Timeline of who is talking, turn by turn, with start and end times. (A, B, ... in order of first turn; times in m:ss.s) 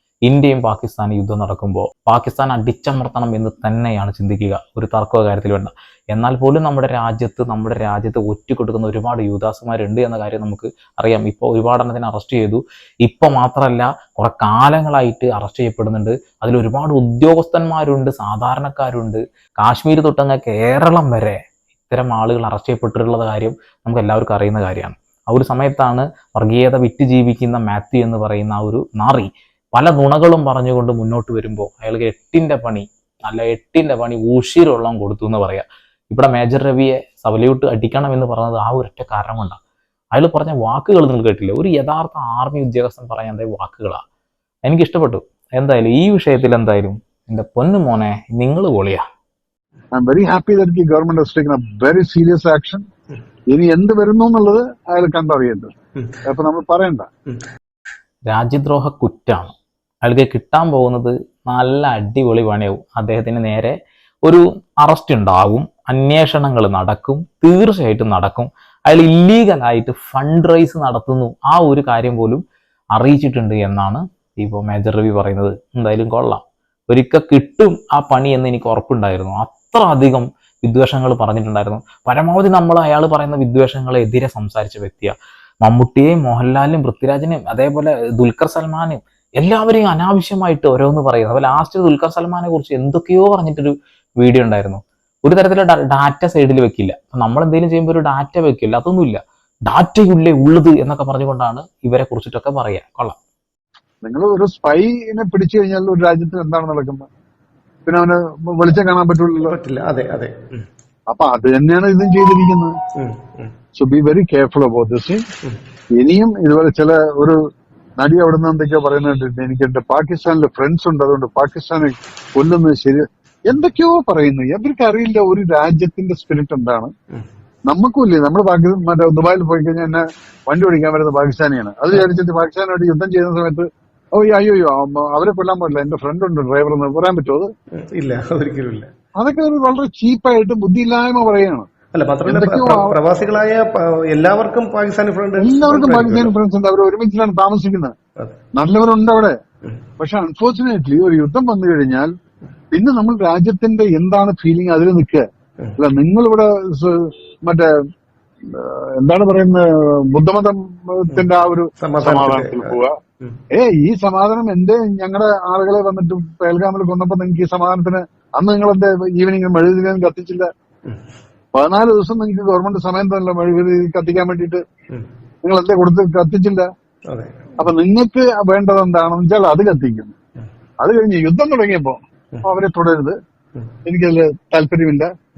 0:00.2-0:39.6 A
0:40.1-0:44.0 A
0:44.6-0:49.0 A
0:49.9-0:52.8 B
0:53.5-0:55.7 B
0:56.2-0:57.1 B
0:58.3-0:59.5 A
1:00.0-1:12.4 A
1:12.9-1:43.2 A
1:44.0-1:47.1 B
1:47.8-1:49.6 B
1:49.4-1:50.6 C
1:51.1-1:52.7 B
1:53.0-1:53.5 C
1:53.8-1:55.2 B
1:56.0-1:57.4 B
1:58.0-2:06.9 B
2:07.7-2:17.5 B
2:17.8-2:18.9 C
2:19.2-2:21.7 B
2:21.9-2:26.3 C
2:22.2-2:23.0 B
2:25.4-2:27.9 B
2:28.6-2:29.3 B
2:30.0-2:32.1 B
2:32.7-2:35.2 B
2:35.8-2:37.7 B
2:38.4-2:43.0 B
2:41.8-2:43.4 C
2:43.5-2:50.5 B
2:51.5-2:54.6 B
2:55.4-2:56.7 B
2:57.1-2:57.5 C
2:57.6-3:00.1 B
3:00.8-3:03.1 B
3:03.8-3:05.1 B